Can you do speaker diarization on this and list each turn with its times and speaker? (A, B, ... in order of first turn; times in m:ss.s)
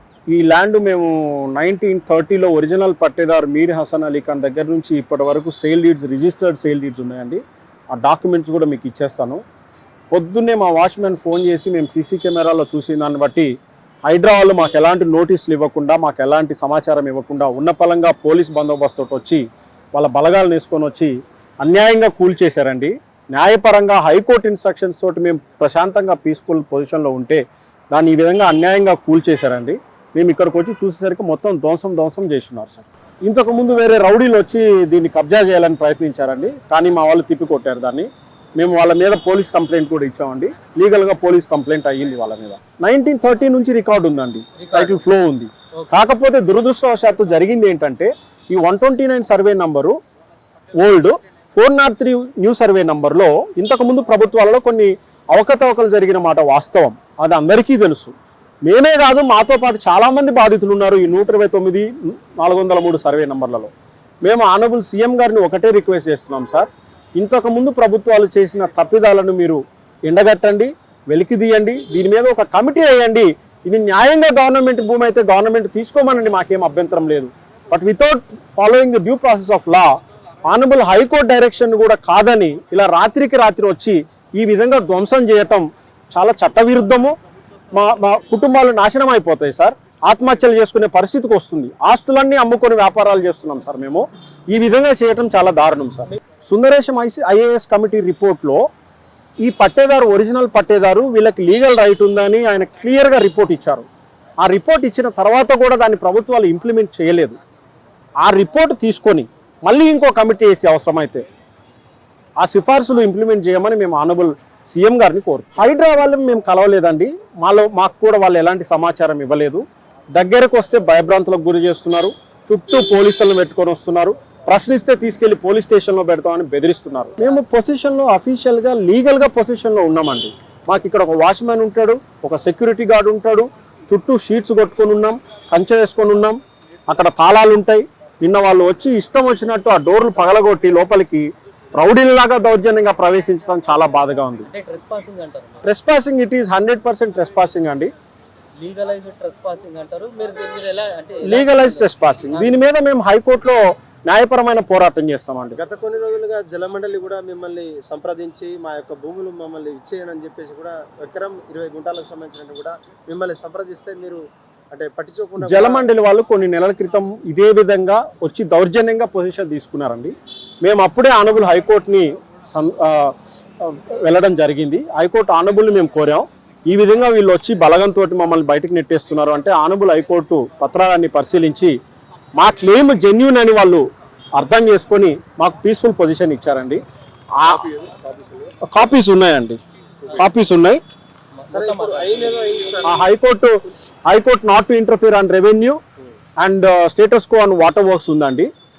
0:00.3-0:07.4 A
0:07.9-0:09.4 A
0:10.1-0:13.5 A
0:14.1-0:50.0 A
0:44.6-0:45.0 B
0:50.8-0:58.1 A
0:58.6-1:03.7 A
1:04.2-1:19.9 A
1:20.5-1:27.1 A
1:27.8-1:38.6 A
1:39.4-1:43.9 A
1:44.4-1:47.4 A
1:48.2-1:51.2 A
1:52.4-1:59.6 A
2:00.2-2:16.4 A
2:16.9-2:24.5 A
2:24.4-2:25.6 B
2:25.6-2:27.9 A
2:28.6-2:32.5 B
2:31.3-2:35.6 A
2:35.6-2:44.2 C
2:44.7-2:45.9 C
2:45.4-3:01.7 A
3:02.4-3:03.8 A
3:04.4-3:06.8 A
3:07.4-3:07.7 A
3:07.5-3:08.5 C
3:08.7-3:09.6 A
3:10.2-3:10.8 A
3:11.4-3:12.4 B
3:11.5-3:13.1 C
3:12.8-3:13.5 A
3:14.1-3:15.8 A
3:16.4-3:18.5 A